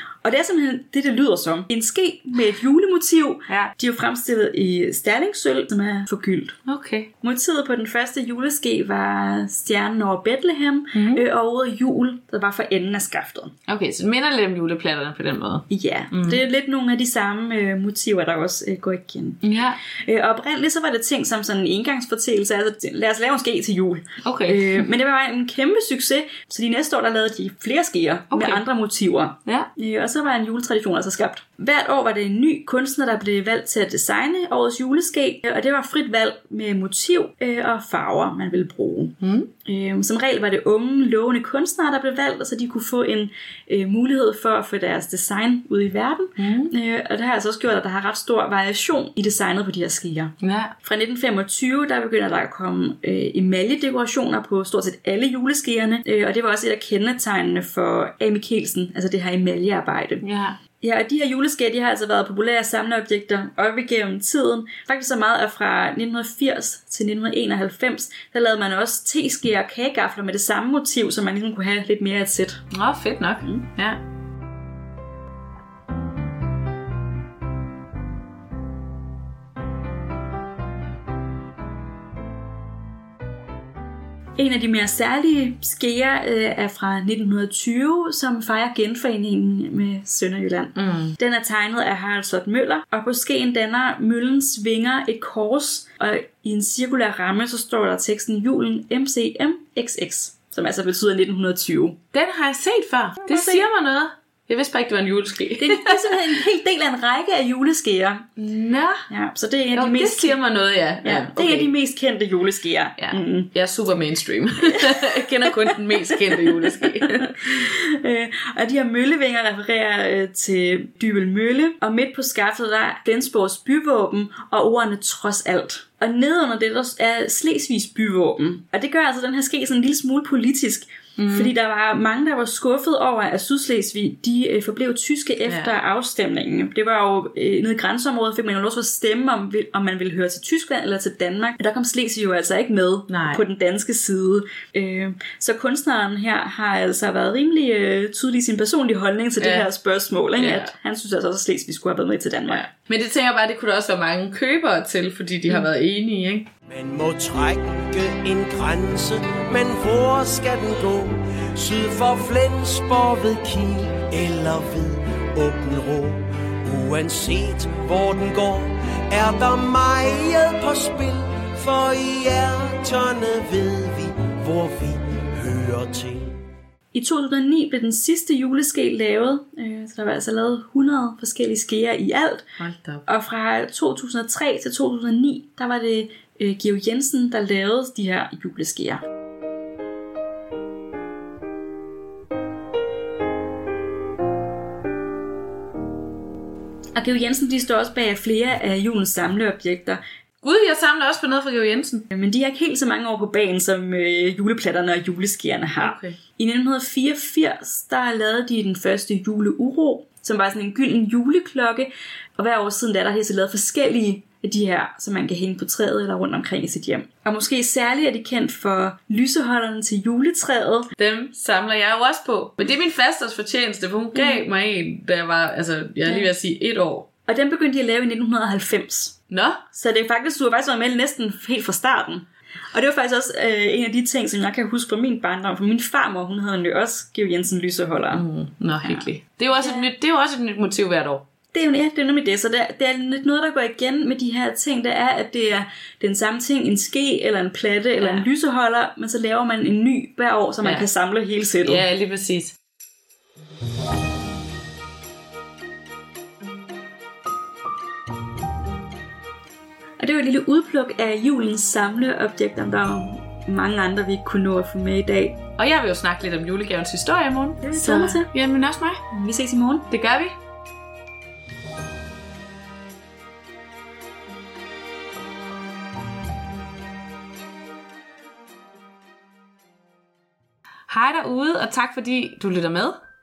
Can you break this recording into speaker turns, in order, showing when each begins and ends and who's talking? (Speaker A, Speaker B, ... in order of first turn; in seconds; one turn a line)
Speaker A: 0.2-6.6
Speaker B: 6.7-7.1
Speaker A: 7.2-13.5
Speaker B: 10.9-11.2
Speaker B: 13.7-16.4
Speaker A: 15.7-19.4
Speaker B: 19.4-19.8
Speaker A: 20.0-60.3
Speaker B: 24.2-24.9
Speaker B: 28.3-28.6
Speaker B: 39.2-39.5
Speaker B: 46.4-46.7
Speaker B: 50.4-50.7
Speaker B: 60.2-60.6
Speaker A: 60.8-72.7
Speaker B: 72.7-74.0
Speaker A: 84.4-102.0
Speaker B: 90.8-91.2
Speaker B: 102.1-106.2
Speaker A: 103.2-103.7
Speaker A: 105.6-108.3
Speaker B: 108.4-109.0
Speaker A: 109.1-110.4
Speaker B: 109.7-111.7
Speaker A: 111.0-113.5
Speaker B: 113.0-117.4
Speaker A: 115.4-152.7
Speaker B: 131.2-131.5
Speaker B: 135.5-135.7
Speaker B: 143.1-143.4
Speaker B: 149.4-149.7
Speaker B: 150.4-150.7
Speaker B: 152.5-156.5
Speaker C: 156.7-176.4
Speaker A: 176.9-182.5
Speaker B: 182.6-183.1
Speaker A: 183.1-189.0
Speaker A: 196.9-200.0
Speaker B: 200.4-202.1
Speaker A: 202.1-220.9
Speaker B: 205.8-206.2
Speaker B: 221.0-227.1
Speaker A: 224.1-224.4
Speaker A: 226.1-226.3
Speaker A: 227.3-229.2
Speaker B: 229.3-229.6
Speaker A: 229.7-238.3
Speaker B: 238.1-241.2
Speaker A: 238.8-239.9
Speaker A: 241.5-251.8
Speaker B: 248.0-248.3
Speaker B: 251.6-252.6
Speaker A: 260.0-265.4
Speaker B: 265.6-269.0
Speaker A: 267.6-268.3
Speaker A: 269.1-269.9
Speaker B: 269.9-270.4
Speaker B: 280.9-283.0